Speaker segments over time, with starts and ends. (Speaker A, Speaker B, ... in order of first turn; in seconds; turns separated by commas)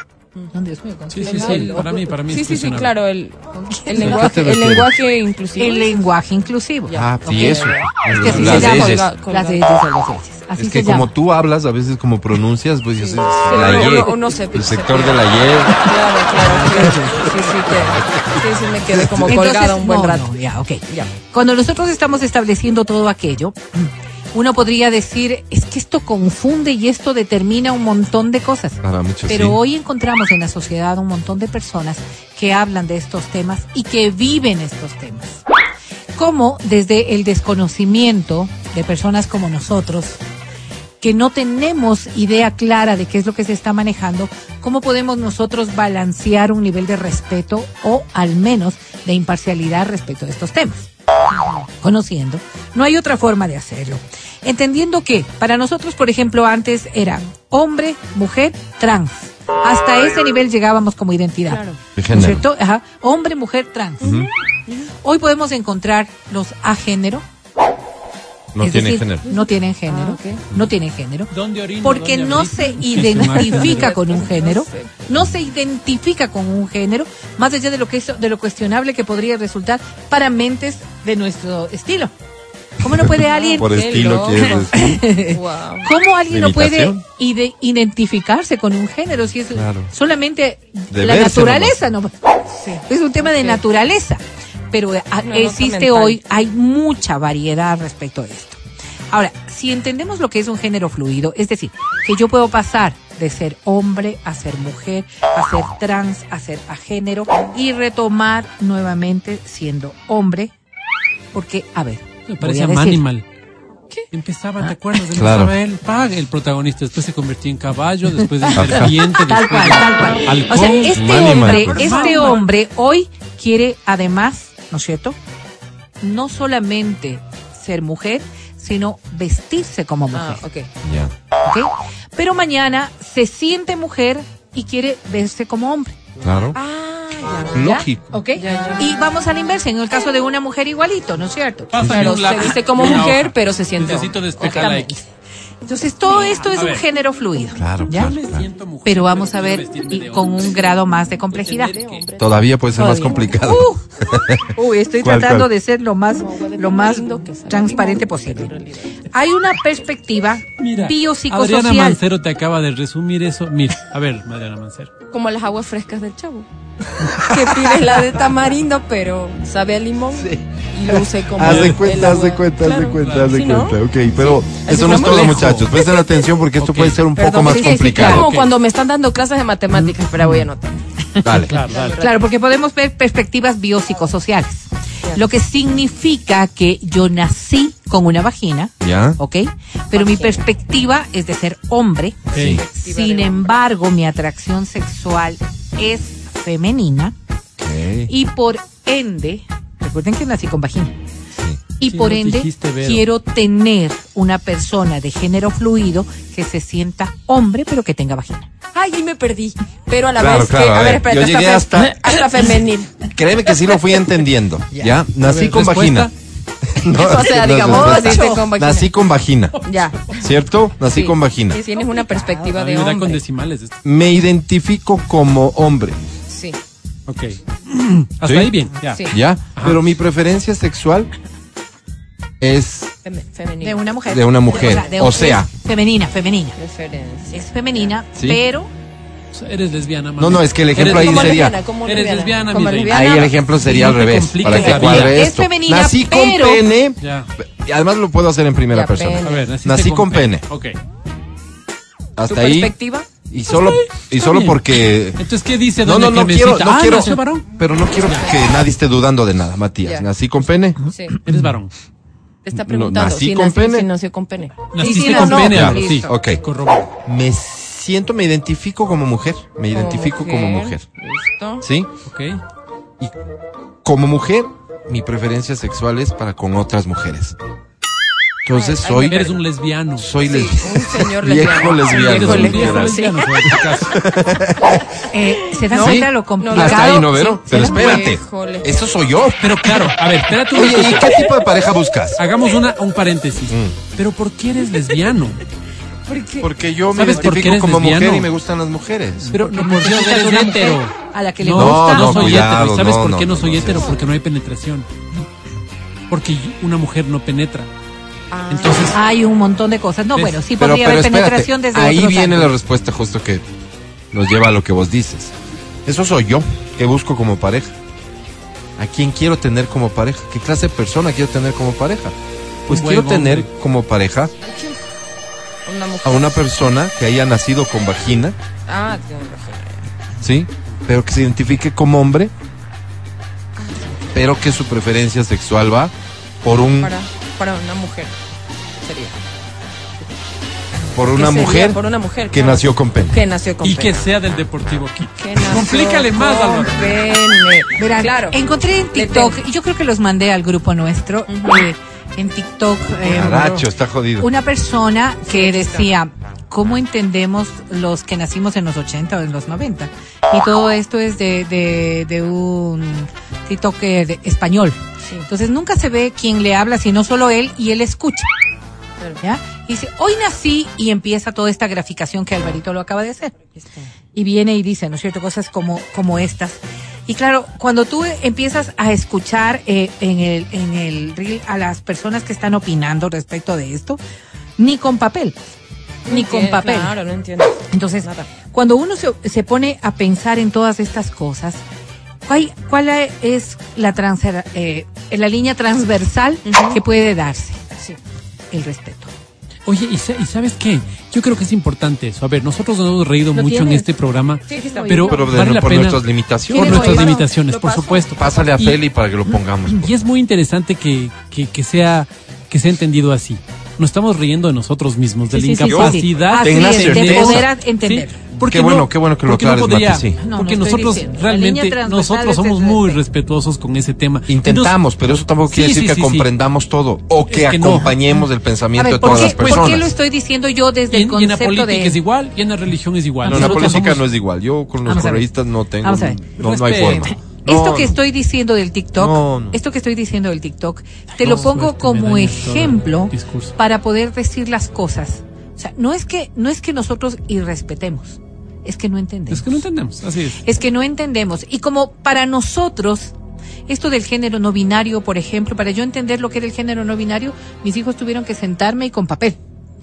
Speaker A: 0.5-2.0, Speaker B: 1.1-2.9, Speaker C: 1.2-6.0, Speaker A: 3.5-4.3, Speaker D: 4.0-4.9, Speaker A: 5.6-11.1, Speaker C: 6.9-9.7, Speaker D: 6.9-9.1, Speaker B: 8.3-8.7, Speaker D: 10.6-15.8, Speaker C: 13.0-20.3, Speaker A: 13.5-14.1, Speaker A: 16.5-17.3, Speaker D: 17.7-19.4, Speaker A: 19.2-35.4, Speaker D: 28.8-29.6, Speaker A: 36.1-40.2, Speaker A: 41.0-50.9, Speaker C: 51.3-51.7, Speaker A: 51.8-64.2, Speaker C: 61.5-61.8, Speaker D: 62.0-62.5, Speaker D: 64.0-64.3, Speaker C: 64.0-64.9, Speaker A: 65.0-67.2, Speaker D: 68.5-69.2, Speaker A: 68.6-71.3, Speaker C: 69.3-70.4, Speaker B: 71.3-73.9, Speaker A: 71.8-82.1, Speaker C: 73.3-75.0, Speaker A: 82.8-92.1, Speaker D: 82.8-85.0, Speaker C: 83.2-85.9, Speaker D: 86.3-87.0, Speaker D: 89.5-89.9, Speaker D: 90.9-91.8, Speaker C: 92.6-93.6, Speaker A: 92.9-98.6, Speaker C: 95.2-96.2, Speaker A: 99.1-110.5, Speaker A: 111.3-113.0, Speaker B: 112.3-113.2, Speaker B: 114.1-122.4, Speaker D: 115.1-115.5, Speaker D: 118.5-119.0, Speaker A: 118.8-125.2, Speaker D: 120.9-121.9, Speaker C: 121.1-122.4, Speaker A: 126.0-130.4, Speaker C: 130.1-130.7, Speaker D: 130.8-131.1, Speaker A: 131.4-136.0, Speaker D: 136.2-136.6, Speaker C: 136.5-137.8, Speaker D: 137.5-138.1, Speaker A: 137.6-141.7, Speaker C: 138.3-139.0, Speaker B: 141.7-144.9, Speaker D: 141.8-142.1, Speaker C: 141.8-144.7, Speaker A: 144.4-145.0, Speaker A: 145.7-148.1, Speaker C: 146.1-146.5, Speaker B: 146.5-146.8, Speaker D: 147.6-148.5, Speaker B: 147.9-150.7, Speaker A: 148.8-151.8, Speaker B: 151.3-152.1, Speaker C: 151.6-152.4, Speaker D: 152.2-155.5, Speaker A: 152.8-153.8, Speaker A: 154.5-158.5, Speaker C: 156.1-158.9, Speaker A: 159.1-162.0, Speaker B: 160.6-164.9, Speaker C: 165.1-166.5, Speaker C: 167.2-176.0, Speaker D: 170.2-178.3, Speaker B: 171.4-171.9, Speaker B: 173.0-173.3, Speaker B: 174.8-175.7, Speaker B: 176.6-177.0, Speaker C: 177.2-180.8, Speaker A: 177.4-178.2, Speaker B: 178.0-178.5, Speaker D: 181.2-181.6, Speaker B: 181.5-182.0, Speaker C: 181.7-182.2, Speaker A: 182.0-197.2, Speaker D: 188.8-189.2, Speaker C: 189.9-190.4, Speaker C: 192.3-193.6, Speaker B: 192.3-192.6, Speaker D: 192.3-192.6, Speaker D: 197.6-198.1, Speaker A: 198.1-201.0, Speaker A: 201.8-208.5, Speaker B: 201.8-203.1, Speaker C: 208.7-213.8, Speaker D: 210.2-212.2, Speaker D: 213.1-216.1, Speaker B: 215.2-216.1, Speaker D: 216.7-219.6, Speaker C: 216.9-218.9, Speaker B: 217.7-218.3, Speaker C: 219.6-220.3, Speaker D: 220.1-221.6, Speaker C: 220.9-223.2, Speaker A: 221.8-222.4, Speaker B: 222.4-223.8, Speaker D: 223.8-226.0, Speaker C: 226.3-226.6, Speaker B: 227.1-229.1, Speaker D: 228.2-231.1, Speaker C: 228.9-229.2, Speaker B: 229.6-229.8, Speaker D: 232.4-232.9, Speaker C: 233.0-234.0, Speaker A: 233.6-236.6, Speaker D: 234.1-235.5, Speaker C: 234.5-234.9, Speaker C: 236.6-237.9, Speaker A: 237.3-238.7, Speaker D: 238.2-238.4, Speaker B: 239.3-245.2, Speaker D: 240.2-241.6, Speaker C: 240.8-243.4, Speaker D: 242.9-250.5, Speaker C: 244.5-244.9, Speaker A: 244.8-246.7, Speaker B: 247.0-247.3, Speaker C: 248.7-249.5, Speaker B: 249.2-250.8, Speaker D: 252.2-252.7, Speaker C: 252.3-253.1, Speaker D: 253.3-255.2, Speaker B: 253.5-257.5, Speaker D: 255.8-260.8, Speaker C: 259.8-260.1, Speaker C: 260.9-261.2, Speaker B: 261.2-261.7, Speaker C: 262.4-265.4, Speaker D: 262.5-263.9, Speaker B: 264.7-266.9, Speaker A: 264.8-266.2, Speaker D: 265.2-266.4, Speaker D: 267.1-270.9, Speaker C: 269.7-271.6, Speaker D: 271.6-271.9, Speaker B: 272.1-272.4, Speaker D: 273.8-277.4, Speaker D: 278.4-279.3, Speaker C: 278.5-279.4, Speaker B: 279.1-280.1, Speaker D: 280.0-284.8, Speaker C: 280.2-283.7, Speaker B: 281.8-284.0, Speaker A: 285.1-288.1, Speaker C: 285.6-288.9, Speaker D: 285.7-292.2, Speaker B: 289.4-291.1, Speaker B: 292.2-295.4, Speaker D: 293.5-293.8, Speaker C: 296.1-296.5, Speaker D: 296.4-299.3, Speaker B: 296.9-298.3, Speaker B: 299.3-304.9, Speaker A: 299.4-302.4, Speaker D: 301.5-303.9, Speaker B: 306.1-307.7, Speaker C: 308.3-308.9, Speaker B: 308.5-308.9, Speaker A: 308.9-312.5, Speaker D: 310.5-313.4, Speaker D: 314.1-315.3, Speaker D: 315.9-317.8, Speaker D: 318.8-324.3, Speaker B: 322.7-323.5, Speaker C: 324.4-324.8, Speaker C: 325.7-326.4, Speaker D: 326.0-328.4, Speaker C: 328.7-329.9, Speaker D: 330.2-332.3, Speaker C: 333.6-334.3, Speaker D: 334.1-336.9, Speaker C: 336.8-338.1, Speaker C: 338.8-339.2, Speaker D: 340.9-343.2, Speaker C: 341.1-344.1, Speaker B: 343.6-347.1, Speaker C: 345.2-348.4, Speaker A: 347.8-353.6, Speaker C: 348.9-349.4, Speaker C: 351.3-351.7, Speaker D: 353.0-354.3, Speaker A: 354.2-368.3, Speaker C: 355.3-355.9, Speaker A: 369.2-373.3, Speaker C: 373.6-373.9, Speaker A: 374.1-384.0, Speaker A: 384.6-385.4, Speaker C: 386.1-388.3, Speaker A: 386.1-387.0, Speaker A: 387.7-391.6, Speaker A: 392.3-397.6, Speaker C: 396.5-396.8, Speaker A: 398.5-399.1, Speaker B: 399.7-408.8, Speaker A: 403.3-403.9, Speaker C: 404.5-405.3, Speaker A: 404.5-405.2, Speaker D: 405.1-407.1, Speaker A: 406.5-407.2, Speaker C: 406.6-408.5, Speaker D: 408.2-409.9, Speaker B: 409.8-424.8, Speaker A: 415.3-418.2, Speaker D: 415.6-417.5, Speaker D: 418.4-420.2, Speaker A: 420.2-423.0, Speaker D: 424.3-429.9, Speaker B: 425.5-426.3, Speaker B: 427.3-428.0, Speaker A: 428.8-432.0, Speaker B: 429.0-429.9, Speaker B: 430.9-434.0, Speaker A: 433.2-433.8, Speaker D: 433.2-438.0, Speaker A: 434.9-435.3, Speaker A: 435.8-436.2, Speaker B: 436.4-437.1, Speaker A: 436.8-449.6, Speaker D: 439.0-439.6, Speaker B: 441.2-443.6, Speaker B: 449.3-450.4, Speaker A: 450.4-453.1, Speaker A: 453.7-459.4